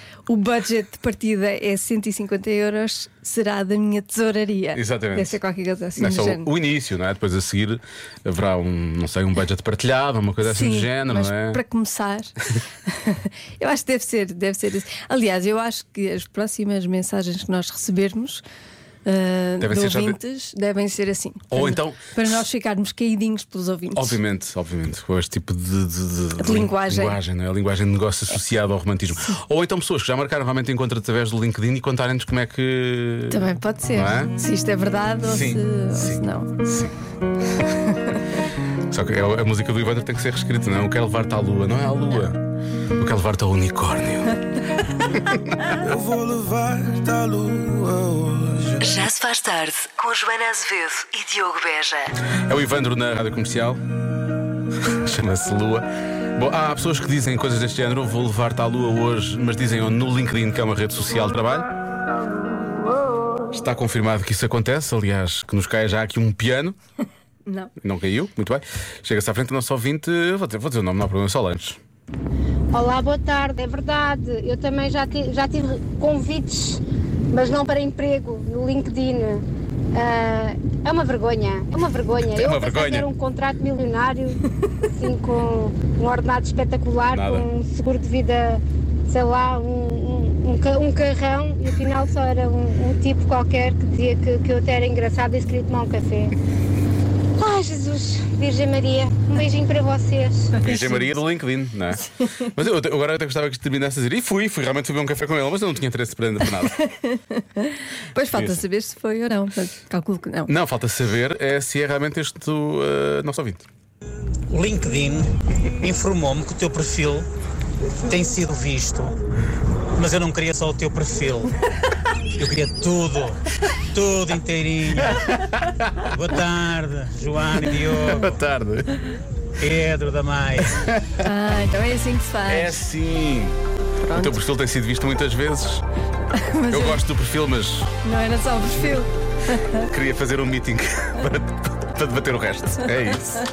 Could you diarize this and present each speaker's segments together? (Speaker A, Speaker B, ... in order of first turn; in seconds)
Speaker A: 0.3-6.5, 10.4-12.3, 12.9-18.4, 19.1-24.2, 26.4-27.2, 33.3-36.5, 100.7-101.1, 106.6-110.5, 131.2-132.8, 134.0-134.4, 136.3-137.0, 138.1-139.8
Speaker B: 4.8-5.4, 6.0-11.6, 19.6-20.2, 21.5-22.1, 23.9-34.3, 35.3-36.9, 38.9-42.4, 43.0-44.4, 45.1-45.6, 52.5-53.8, 54.9-61.7, 63.5-66.8, 67.8-71.8, 82.3-83.1, 87.1-87.5, 100.6-106.8, 108.3-108.6, 110.5-113.7, 125.3-125.9, 128.2-128.9, 132.5-133.6, 134.1-135.8, 136.7-137.9, 139.9-143.4
Speaker C: 45.8-48.8
Speaker D: 48.8-52.1
Speaker E: 72.7-76.8, 77.3-84.4, 85.0-96.3, 97.4-100.5
Speaker F: 114.5-115.3, 115.8-117.3, 118.0-119.2, 120.0-121.5, 122.4-123.4, 123.9-125.2, 126.1-128.4, 129.6-130.9